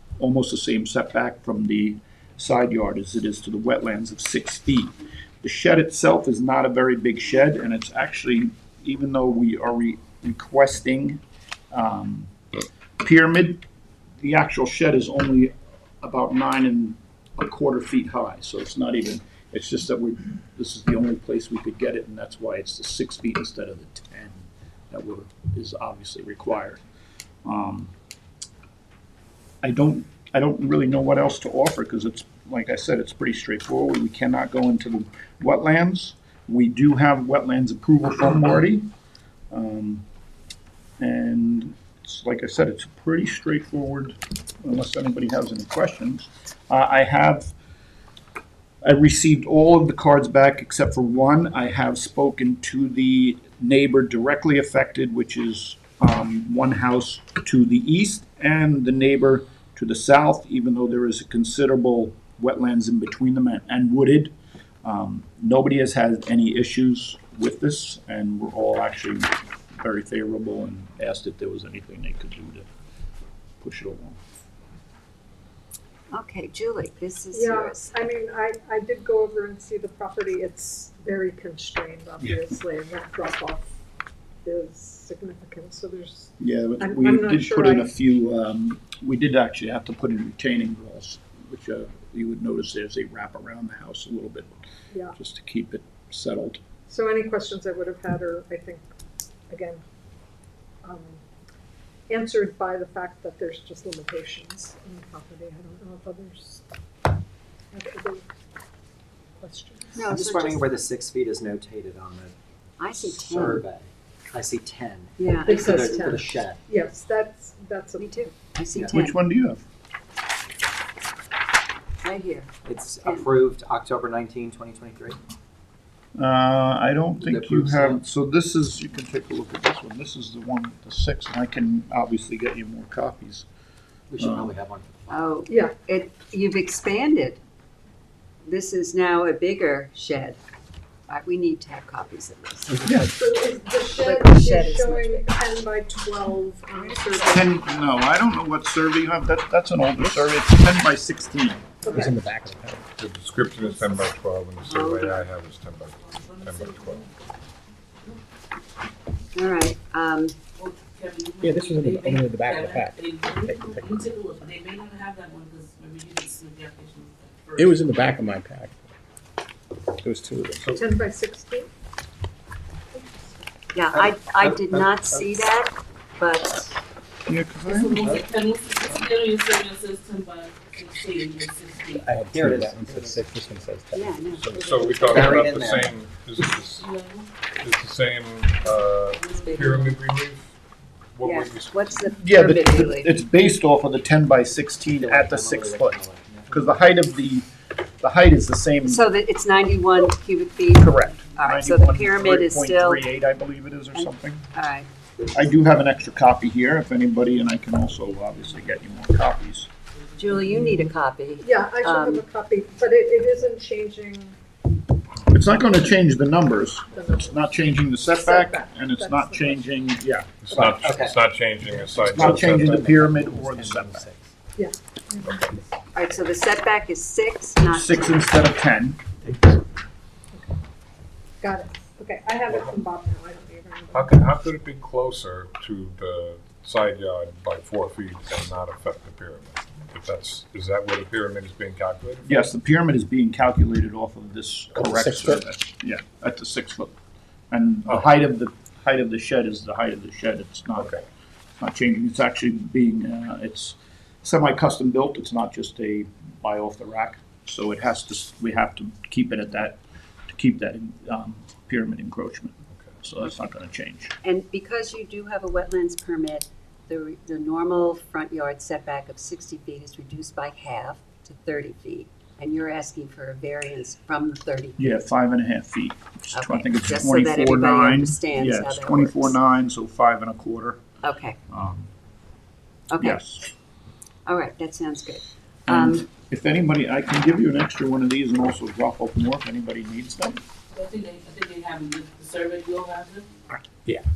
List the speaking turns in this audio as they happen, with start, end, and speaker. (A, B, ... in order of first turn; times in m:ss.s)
0:00.2-0:11.2 A
0:11.7-0:12.3 A
0:13.0-0:13.6 A
0:14.2-0:26.8 A
0:27.4-0:27.9 A
0:29.6-0:38.9 A
0:39.5-0:40.0 A
0:41.0-0:47.5 A
0:48.8-1:12.7 A
1:13.6-1:14.2 A
1:16.1-1:17.9 B
1:17.3-1:23.7 C
1:24.4-1:27.9 C
1:26.4-1:36.6 A
1:36.9-1:38.8 C
1:39.5-1:39.8 C
1:40.8-1:41.2 C
1:42.1-1:46.6 C
1:47.7-1:48.3 C
1:49.4-1:50.0 C
1:49.9-1:50.7 B
1:50.0-1:52.3 D
1:52.8-1:53.6 B
1:52.9-1:56.6 D
1:55.2-1:56.0 B
1:55.5-1:58.1 C
1:58.0-1:59.2 B
1:58.7-1:59.0 D
1:58.9-1:59.6 A
2:02.0-2:02.5 B
2:02.6-2:05.2 D
2:06.2-2:13.5 A
2:07.2-2:08.0 D
2:14.1-2:15.2 D
2:14.2-2:14.5 A
2:15.1-2:17.4 B
2:18.4-2:20.4 B
2:21.1-2:22.8 B
2:22.7-2:23.0 E
2:22.8-2:23.1 A
2:23.1-2:27.8 C
2:23.8-2:25.3 B
2:26.8-2:27.3 B
2:27.3-2:31.8 A
2:31.8-2:32.1 C
2:31.9-2:32.9 E
2:33.0-2:37.1 F
2:34.7-2:35.3 B
2:36.0-2:37.2 G
2:39.3-2:40.4 B
2:40.6-2:48.0 G
2:41.4-2:44.0 E
2:47.6-2:48.9 E
2:50.0-2:50.7 E
2:50.7-2:51.7 C
2:52.9-2:53.3 C
2:53.7-2:56.8 B
2:53.9-2:55.4 D
2:57.3-2:58.0 A
2:57.6-3:02.0 G
2:58.0-2:58.3 D
3:02.0-3:04.3 E
3:02.2-3:03.2 D
3:03.9-3:05.2 B
3:04.3-3:06.9 F
3:05.1-3:06.0 D
3:06.8-3:07.3 G
3:07.6-3:10.6 F
3:08.6-3:10.0 G
3:11.1-3:12.2 F
3:11.2-3:13.1 B
3:12.2-3:17.5 A
3:14.9-3:16.8 D
3:18.0-3:19.1 A
3:18.8-3:23.0 B
3:20.8-3:24.4 A
3:23.9-3:24.9 B
3:25.3-3:29.7 A
3:30.2-3:32.3 B
3:30.4-3:30.7 G
3:31.4-3:34.4 C
3:35.3-3:40.4 A
3:36.9-3:39.7 C
3:40.4-3:42.9 F
3:40.5-3:40.8 C
3:40.8-3:44.3 D
3:42.0-3:44.1 A
3:44.6-3:45.4 C
3:45.9-3:48.3 B
3:47.7-3:49.0 A
3:51.4-3:54.2 C
3:53.9-4:02.2 F
4:02.2-4:06.9 A
4:04.7-4:05.4 E
4:07.5-4:11.1 A
4:11.6-4:24.1 A
4:24.2-4:34.8 B
4:34.8-4:40.8 A
4:36.3-4:39.4 B
4:41.0-4:41.4 B
4:41.5-4:41.9 A
4:42.9-4:43.2 B
4:43.0-4:43.5 A
4:44.2-4:46.0 B
4:45.7-4:50.4 A
4:50.7-4:53.3 G